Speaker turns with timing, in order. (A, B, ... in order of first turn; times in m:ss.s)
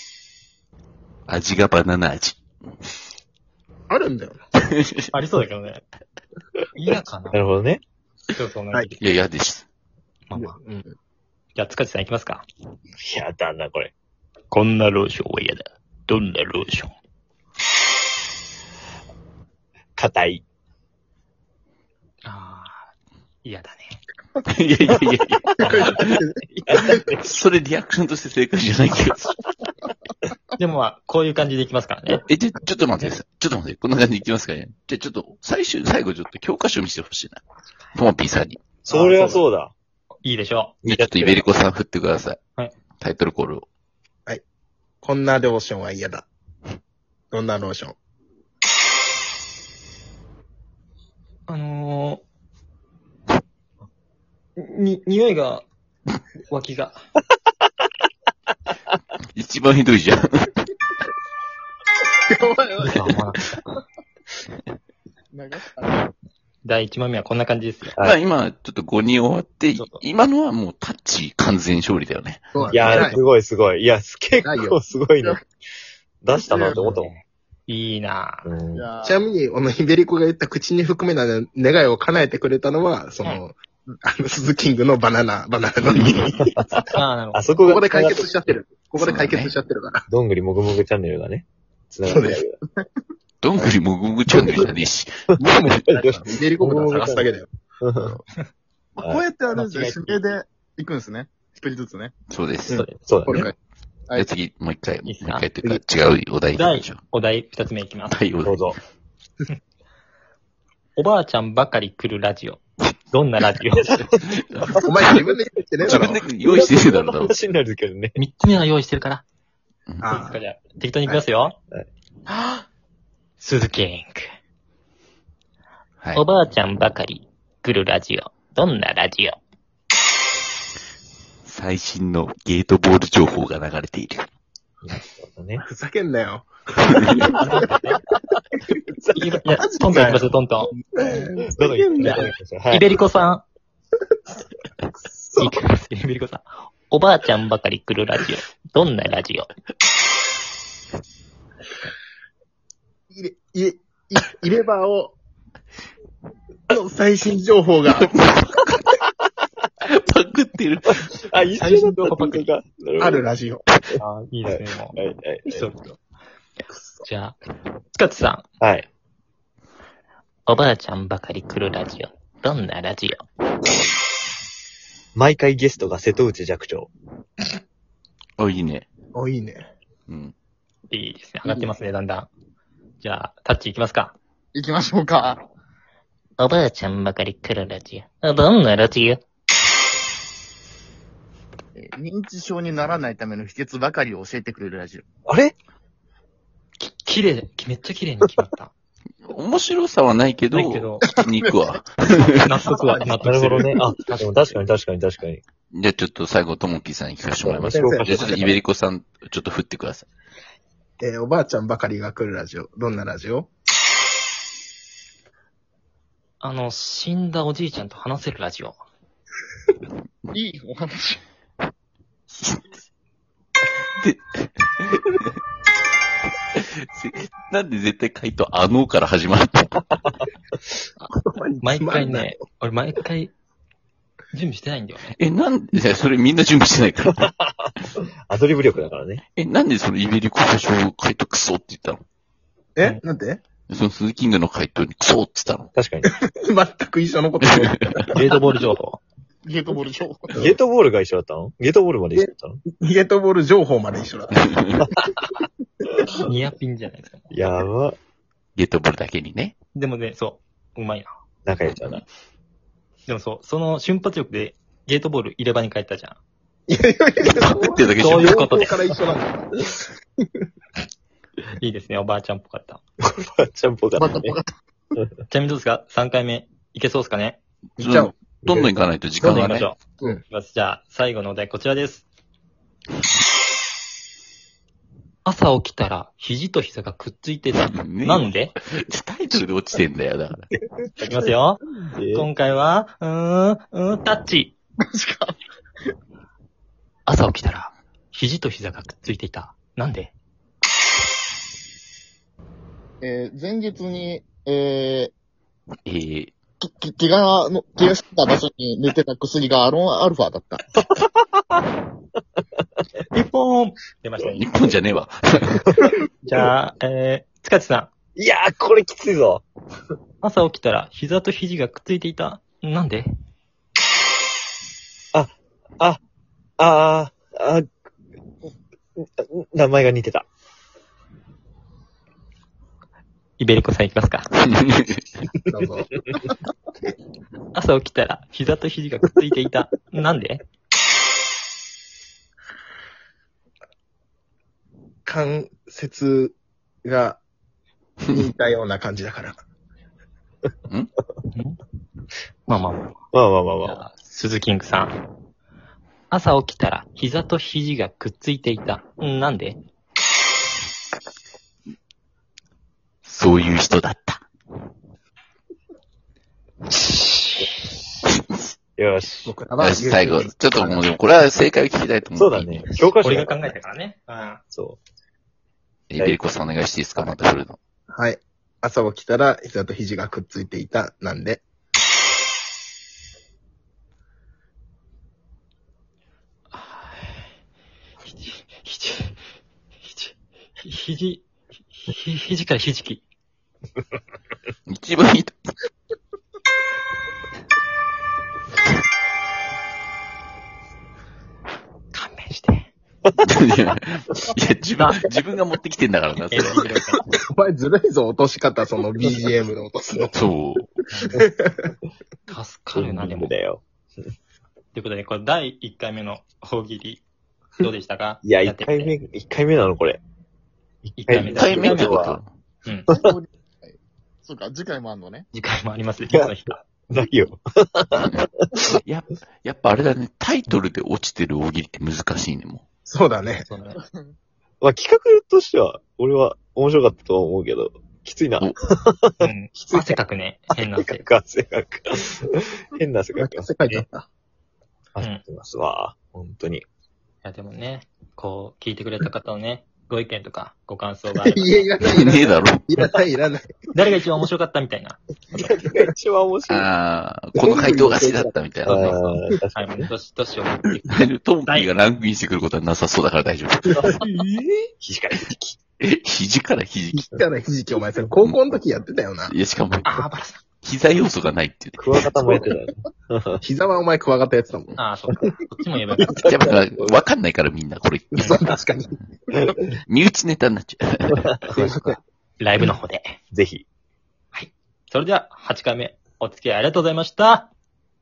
0:01.3-0:02.4 A
0:03.9-0:04.4 B
0:04.7-0:04.9 A
0:05.1-0:05.8 C
0:06.8-0:07.4 C
0:07.3-0:07.8 D
0:08.3-0:09.0 C
0:09.0-0:09.7 A
0:10.3-0:10.6 C
0:10.3-0:11.0 B
0:11.6-0:12.4 C
0:13.0-0:13.9 D
0:14.5-0:16.9 C
0:20.0-0:20.4 D
0:22.2-0:22.9 C
0:23.4-0:24.0 C
0:24.5-0:29.3 A
0:25.6-0:26.0 C
0:25.6-0:27.0 B
0:26.7-0:27.2 D
0:30.6-0:32.2 C
0:32.2-0:37.4 A
0:38.0-0:38.6 A
0:38.8-0:39.7 D
0:38.9-0:39.4 C
0:40.2-0:40.7 C
0:40.8-0:41.5 D
0:40.9-0:42.4 A
0:43.0-0:43.7 A
0:45.0-0:46.3 B
0:47.3-0:48.0 B
0:51.5-0:52.2 C
0:54.6-0:55.7 C
0:56.5-0:57.0 C
0:59.3-1:00.5 A
1:02.3-1:03.1 B
1:02.8-1:03.4 C
1:05.3-1:06.1 E
1:06.6-1:08.0 C
1:08.0-1:12.4 A
1:12.5-1:13.2 B
1:12.6-1:13.2 C
1:12.7-1:15.4 D
1:14.4-1:14.8 B
1:16.2-1:17.1 D
1:16.3-1:16.9 E
1:16.8-1:18.5 C
1:18.4-1:18.8 D
1:18.8-1:19.2 E
1:19.0-1:26.5 B
1:26.4-1:28.4 D
1:26.9-1:27.4 C
1:27.6-1:30.0 B
1:29.0-1:29.5 A
1:30.1-1:32.6 D
1:32.1-1:32.4 B
1:32.6-1:33.0 E
1:33.4-1:35.1 A
1:34.3-1:34.7 D
1:35.4-1:38.2 D
1:35.4-1:37.5 B
1:38.0-1:38.2 E
1:39.0-1:42.1 E
1:39.0-1:40.2 D
1:42.3-1:42.8 A
1:42.7-1:43.5 B
1:43.1-1:43.5 D
1:44.2-1:47.0 A
1:45.0-1:45.5 C
1:46.5-1:48.2 C
1:48.1-1:48.6 A
1:48.4-1:48.8 D
1:51.0-1:53.9 C
1:53.9-1:54.3 D
1:54.4-1:55.1 A
1:54.7-1:56.2 B
1:55.8-1:57.3 A
1:55.9-1:58.2 D
1:58.2-1:59.2 C
2:00.0-2:00.4 B
2:00.1-2:01.6 C
2:02.3-2:02.6 C
2:03.4-2:04.3 C
2:06.2-2:09.4 C
2:11.4-2:14.3 A
2:14.8-2:15.6 D
2:15.6-2:17.4 B
2:17.0-2:17.3 A
2:17.4-2:18.0 C
2:19.0-2:19.6 D
2:19.2-2:20.7 C
2:19.5-2:20.2 B
2:20.8-2:22.3 B
2:21.5-2:23.0 D
2:22.0-2:23.4 C
2:25.2-2:25.5 B
2:25.4-2:29.5 C
2:33.1-2:35.2 B
2:36.7-2:38.3 B
2:37.9-2:39.0 A
2:39.8-2:41.0 A
2:40.9-2:43.3 D
2:41.6-2:42.5 C
2:43.0-2:43.6 B
2:44.0-2:45.7 D
2:44.0-2:45.0 C
2:45.5-2:46.0 C
2:46.7-2:47.0 B
2:47.0-2:47.4 C
2:48.0-2:48.4 C
2:48.6-2:48.9 D
2:50.5-2:53.2 C
2:55.2-2:56.9 D
2:58.4-2:58.9 A
2:59.1-2:59.7 B
3:00.1-3:00.3 A
3:00.9-3:02.3 C
3:03.0-3:04.2 C
3:04.5-3:05.5 E
3:06.4-3:09.2 C
3:11.8-3:15.0 E
3:15.3-3:15.6 D
3:16.8-3:18.7 C
3:19.2-3:22.6 A
3:20.5-3:21.0 C
3:21.1-3:21.6 E
3:22.4-3:24.4 C
3:23.2-3:25.4 D
3:25.7-3:30.1 A
3:27.5-3:28.6 D
3:27.7-3:28.5 B
3:31.0-3:33.5 B
3:36.4-3:38.8 C
3:40.3-3:41.2 E
3:42.3-3:42.7 A
3:44.0-3:45.3 A
3:46.6-3:49.9 A
3:51.0-3:53.3 C
3:51.2-3:52.3 B
3:54.3-3:55.1 C
3:55.1-3:57.3 A
3:57.2-3:59.2 D
3:59.4-4:02.0 A
4:02.8-4:03.4 B
4:03.7-4:05.7 A
4:05.8-4:06.1 D
4:06.1-4:08.4 B
4:07.5-4:08.0 A
4:08.1-4:09.0 C
4:09.4-4:10.4 E
4:10.4-4:12.6 D
4:12.2-4:14.5 B
4:14.5-4:14.8 A
4:16.2-4:17.3 C
4:17.3-4:18.0 D
4:18.6-4:19.6 A
4:19.8-4:21.1 C
4:21.5-4:22.0 D
4:23.1-4:26.2 C
4:26.7-4:29.9 B
4:27.2-4:28.4 A
4:28.0-4:28.9 C
4:31.6-4:32.8 C
4:33.0-4:34.4 D
4:34.0-4:34.6 E
4:35.3-4:37.4 C
4:37.8-4:39.7 A
4:37.8-4:38.1 B
4:38.4-4:38.7 D
4:39.2-4:42.1 C
4:45.2-4:48.5 C
4:47.7-4:50.5 A
4:51.0-4:54.6 C
4:51.8-4:52.3 D
4:54.8-4:55.9 E
4:57.1-5:00.1 C
5:03.0-5:05.1 E
5:05.8-5:06.3 A
5:06.6-5:10.6 E
5:10.8-5:11.6 D
5:13.1-5:14.5 C
5:14.3-5:15.7 A
5:16.2-5:17.9 C
5:18.2-5:19.5 D
5:20.2-5:23.1 C
5:25.1-5:26.0 D
5:26.6-5:27.7 D
5:29.0-5:30.3 D
5:33.4-5:34.3 C
5:34.5-5:35.0 A
5:35.4-5:36.3 B
5:37.5-5:40.4 C
5:45.1-5:47.2 B
5:48.1-5:49.4 B
5:51.3-5:51.6 C
5:52.5-5:52.9 C
5:53.1-5:53.8 D
5:53.6-5:54.9 C
5:56.1-5:59.6 C
6:03.0-6:04.2 A
6:06.7-6:07.6 C
6:08.8-6:09.3 D
6:09.2-6:10.9 B
6:09.6-6:12.7 A
6:12.1-6:13.3 D
6:13.0-6:14.4 C
6:14.5-6:14.8 D
6:15.9-6:17.6 A
6:17.9-6:21.4 B
6:26.5-6:27.3 C
6:28.0-6:29.2 C
6:29.8-6:33.0 C
6:34.7-6:35.4 A
6:41.9-6:42.7 C
6:43.2-6:46.7 A
6:44.8-6:45.0 C
6:46.3-6:47.0 C
6:47.1-6:50.1 B
6:50.1-6:50.7 A
6:50.9-6:51.2 C
6:51.2-6:51.6 B
6:52.3-6:53.3 C
6:52.8-6:53.6 D
6:54.7-6:57.0 C
6:57.6-6:59.0 C
6:58.2-7:00.0 D
7:00.8-7:02.2 D
7:01.0-7:02.0 C
7:01.2-7:02.3 A
7:02.9-7:05.3 E
7:05.3-7:06.6 C
7:06.9-7:08.8 D
7:08.0-7:12.6 A
7:12.9-7:13.5 B
7:13.5-7:13.8 C
7:13.7-7:14.2 E
7:14.6-7:20.0 D
7:19.2-7:21.1 C
7:20.6-7:23.9 D
7:23.2-7:24.0 B
7:24.9-7:26.6 D
7:27.2-7:31.5 C
7:31.2-7:33.5 B
7:31.8-7:32.6 A
7:33.7-7:35.0 C
7:35.3-7:36.7 D
7:36.5-7:39.1 A
7:37.4-7:39.0 B
7:38.6-7:39.9 D
7:39.6-7:40.9 C
7:40.9-7:44.0 A
7:43.8-7:44.2 D
7:44.8-7:45.6 D
7:45.8-7:47.1 A
7:46.9-7:49.4 B
7:48.2-7:48.6 A
7:49.2-7:50.0 A
7:49.9-7:50.4 C
7:50.6-7:51.8 A
7:51.8-7:53.4 D
7:53.4-7:54.8 B
7:54.8-7:56.1 C
7:56.0-7:57.0 D
7:56.1-7:58.3 A
7:58.1-7:58.9 B
7:58.2-7:58.4 C
7:59.9-8:01.3 A
8:01.5-8:03.2 C
8:01.6-8:01.9 B
8:03.3-8:03.6 D
8:04.3-8:07.5 C